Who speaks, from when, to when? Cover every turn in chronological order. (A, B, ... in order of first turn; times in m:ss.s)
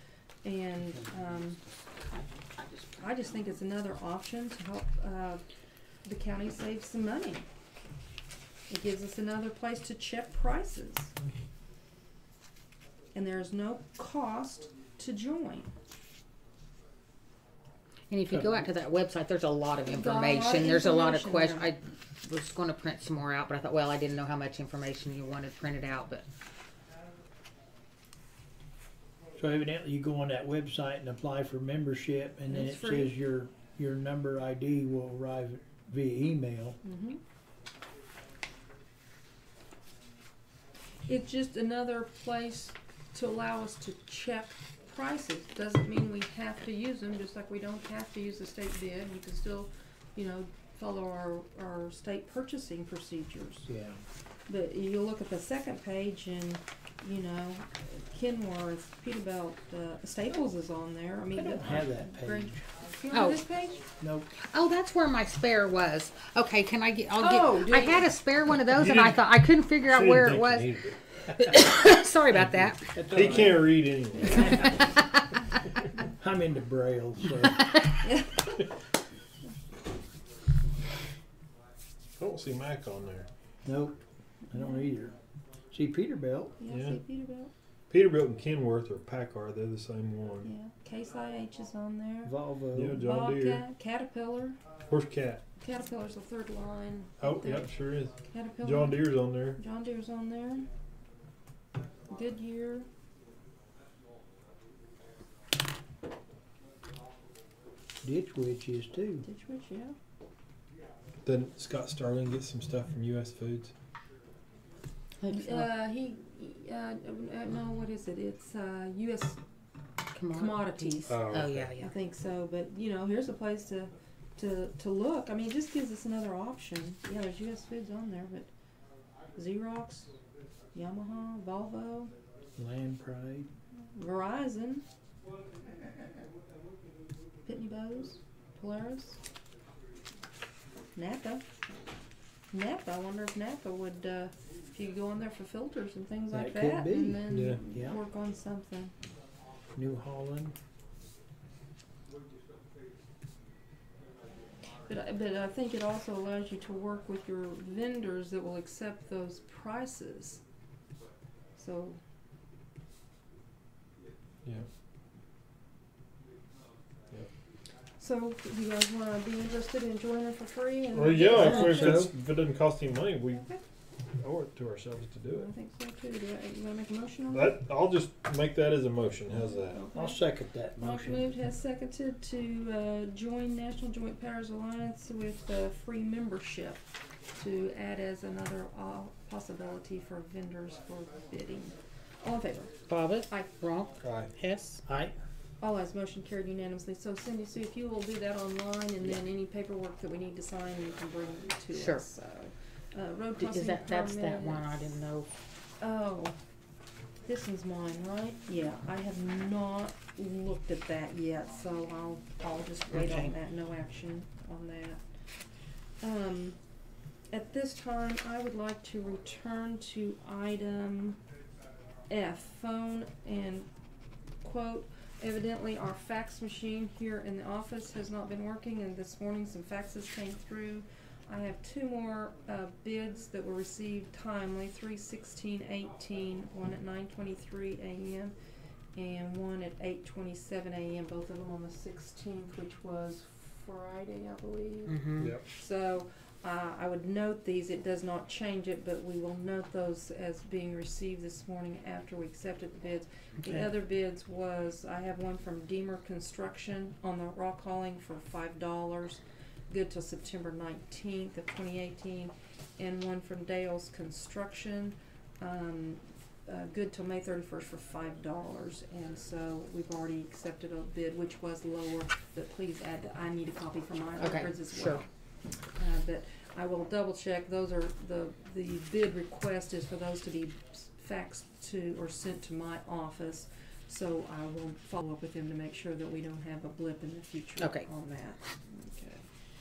0:00.4-0:01.6 A
0:03.0-0:05.4 A
0:06.0-0:07.5 A
0:08.7-0:11.1 A
0:13.1-0:15.7 A
0:18.1-0:26.2 B
0:19.8-0:21.7 A
0:29.4-0:36.8 C
0:32.5-0:33.2 A
0:36.8-0:37.2 A
0:41.0-0:53.7 A
0:53.7-0:54.0 C
0:54.5-1:03.9 A
1:01.3-1:02.6 C
1:03.1-1:03.4 B
1:04.0-1:04.3 C
1:04.3-1:13.0 B
1:07.2-1:08.1 A
1:08.7-1:09.3 D
1:09.8-1:10.9 D
1:12.9-1:14.9 C
1:13.1-1:14.7 D
1:14.4-1:15.4 B
1:16.1-1:17.6 C
1:17.5-1:18.0 B
1:18.0-1:18.6 A
1:22.2-1:23.3 D
1:23.6-1:25.2 C
1:24.5-1:24.9 A
1:25.7-1:26.6 C
1:26.6-1:27.5 A
1:26.7-1:27.0 D
1:27.9-1:30.5 D
1:30.4-1:32.3 A
1:32.2-1:33.0 C
1:32.7-1:33.6 D
1:32.9-1:34.6 A
1:34.9-1:35.4 D
1:35.6-1:40.7 A
1:37.2-1:39.6 D
1:42.1-1:42.9 A
1:48.0-1:49.2 C
1:49.2-1:50.0 A
1:51.2-1:53.7 D
1:55.2-1:55.7 B
1:55.3-1:59.4 A
2:00.1-2:01.9 B
2:00.3-2:01.3 A
2:01.1-2:01.7 D
2:01.8-2:08.5 A
2:09.3-2:10.1 A
2:10.7-2:12.1 A
2:12.6-2:13.5 C
2:13.9-2:14.8 A
2:17.4-2:19.2 A
2:21.0-2:21.4 A
2:22.5-2:28.9 A
2:26.3-2:28.0 C
2:27.3-2:27.6 D
2:29.7-2:30.6 C
2:34.8-2:40.4 A
2:41.6-2:42.0 A
2:48.0-2:52.1 A
2:50.9-2:53.4 D
2:51.3-2:52.1 C
2:53.3-2:53.6 A
2:54.2-2:55.5 D
2:55.3-2:57.6 A
2:57.3-2:59.8 D
2:59.7-3:00.2 A
2:59.9-3:01.3 C
3:00.8-3:06.8 A
3:07.4-3:12.7 A
3:12.9-3:14.8 B
3:13.3-3:13.5 A
3:14.0-3:14.3 D
3:14.8-3:15.1 C
3:15.6-3:24.9 A
3:21.7-3:22.0 B
3:23.4-3:25.3 B
3:25.8-3:26.4 A
3:27.2-3:35.0 A
3:32.9-3:33.3 B
3:36.0-3:36.6 A
3:37.3-3:41.2 A
3:42.1-3:43.7 A
3:44.4-3:58.3 A
3:58.9-4:35.1 A
4:04.9-4:05.3 B
4:05.2-4:05.4 D
4:34.2-4:35.0 B
4:35.7-4:49.3 A
4:47.6-4:47.8 B